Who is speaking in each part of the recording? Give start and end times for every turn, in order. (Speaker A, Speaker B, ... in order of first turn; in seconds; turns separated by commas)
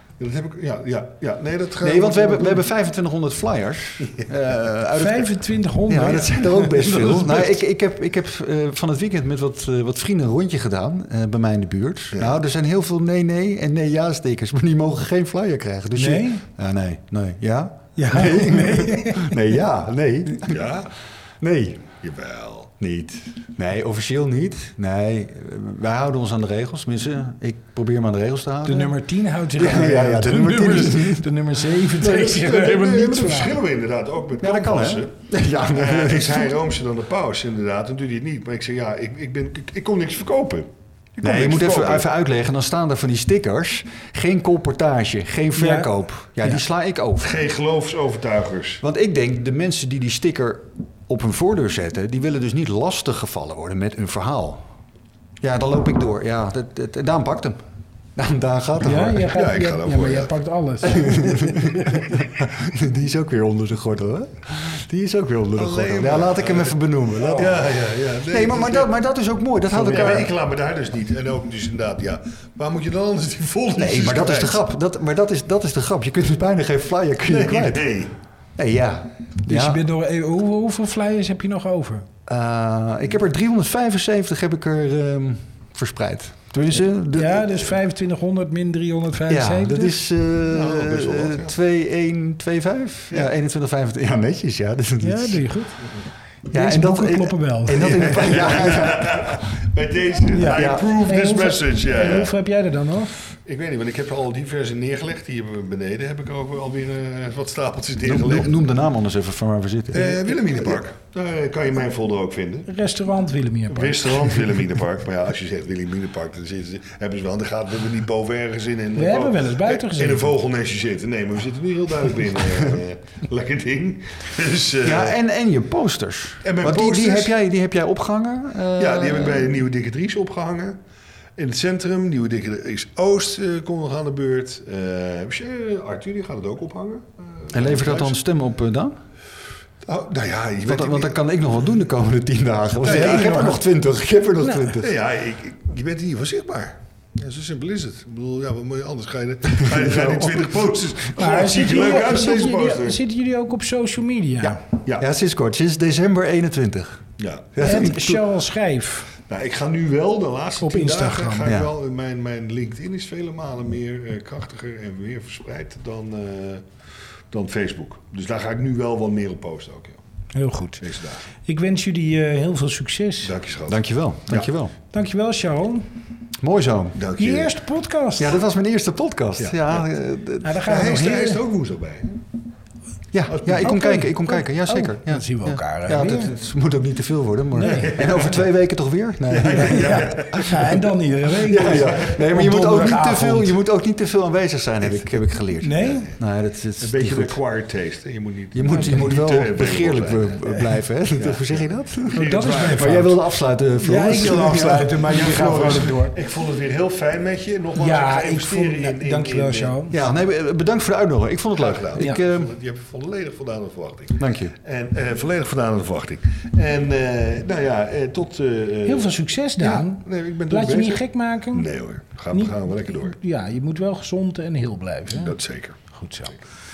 Speaker A: 0.2-2.7, Speaker B: 1.8-5.3, Speaker C: 5.0-7.5, Speaker B: 5.9-20.8, Speaker A: 12.1-12.4, Speaker C: 15.9-16.4, Speaker C: 18.0-19.5, Speaker A: 20.4-20.9, Speaker B: 21.4-21.9, Speaker A: 22.0-22.7, Speaker B: 22.8-29.0, Speaker C: 28.6-33.6, Speaker B: 29.6-31.3, Speaker A: 32.0-35.1, Speaker B: 34.4-36.6, Speaker A: 35.7-42.1, Speaker B: 41.2-47.4, Speaker C: 45.6-45.9, Speaker A: 47.2-48.8, Speaker B: 48.8-54.6, Speaker B: 55.4-57.6, Speaker B: 58.2-59.3, Speaker C: 58.8-62.0, Speaker A: 59.3-60.3, Speaker B: 60.9-67.7, Speaker A: 65.6-68.9, Speaker B: 68.2-70.3, Speaker A: 69.7-74.6, Speaker B: 73.8-77.9, Speaker A: 77.3-78.2, Speaker B: 78.6-79.8, Speaker C: 79.4-82.1, Speaker B: 82.3-87.7, Speaker C: 87.1-90.0, Speaker B: 89.3-95.4, Speaker A: 90.5-91.5, Speaker C: 95.0-95.9, Speaker B: 96.5-99.4, Speaker C: 96.5-98.0, Speaker A: 97.8-102.3, Speaker C: 100.3-103.2, Speaker B: 100.5-100.9, Speaker A: 103.5-108.5, Speaker B: 108.0-110.1, Speaker A: 109.9-112.7, Speaker C: 112.7-114.3, Speaker A: 113.7-125.1, Speaker C: 119.0-120.3, Speaker B: 124.8-129.6, Speaker A: 126.4-127.3, Speaker A: 128.8-130.8, Speaker A: 131.4-138.2, Speaker B: 137.5-139.0, Speaker A: 139.8-141.2, Speaker B: 140.7-144.9, Speaker A: 142.8-143.6, Speaker C: 142.9-143.5, Speaker C: 144.4-144.8, Speaker A: 144.8-153.0, Speaker B: 149.6-150.5, Speaker C: 151.1-154.6, Speaker B: 154.4-158.2, Speaker A: 157.2-157.9, Speaker C: 157.6-159.1, Speaker A: 159.3-166.6, Speaker C: 160.6-161.5, Speaker B: 161.4-161.7, Speaker A: 167.3-170.0, Speaker C: 170.3-170.8, Speaker A: 170.8-171.2, Speaker C: 171.4-173.3, Speaker A: 173.2-174.5, Speaker B: 173.7-174.7, Speaker C: 174.9-175.9, Speaker B: 176.4-177.0, Speaker A: 176.9-177.5, Speaker C: 177.2-178.4, Speaker B: 178.2-181.1, Speaker A: 179.4-179.9, Speaker C: 180.4-181.4, Speaker A: 180.7-182.2, Speaker B: 183.1-190.6, Speaker A: 183.3-183.7, Speaker C: 183.6-186.3, Speaker C: 187.6-188.0, Speaker A: 187.8-188.4, Speaker A: 189.3-190.6, Speaker C: 189.6-193.6, Speaker B: 191.4-197.4, Speaker C: 195.6-196.1, Speaker A: 196.8-203.1, Speaker B: 198.5-205.8, Speaker C: 198.7-199.0, Speaker C: 202.1-203.1, Speaker C: 203.8-206.1, Speaker A: 204.1-209.8, Speaker C: 207.8-210.0, Speaker B: 209.9-212.5, Speaker A: 211.6-223.2, Speaker B: 214.2-214.5, Speaker C: 218.9-221.7, Speaker C: 222.3-225.4, Speaker A: 225.1-225.8, Speaker C: 225.9-226.3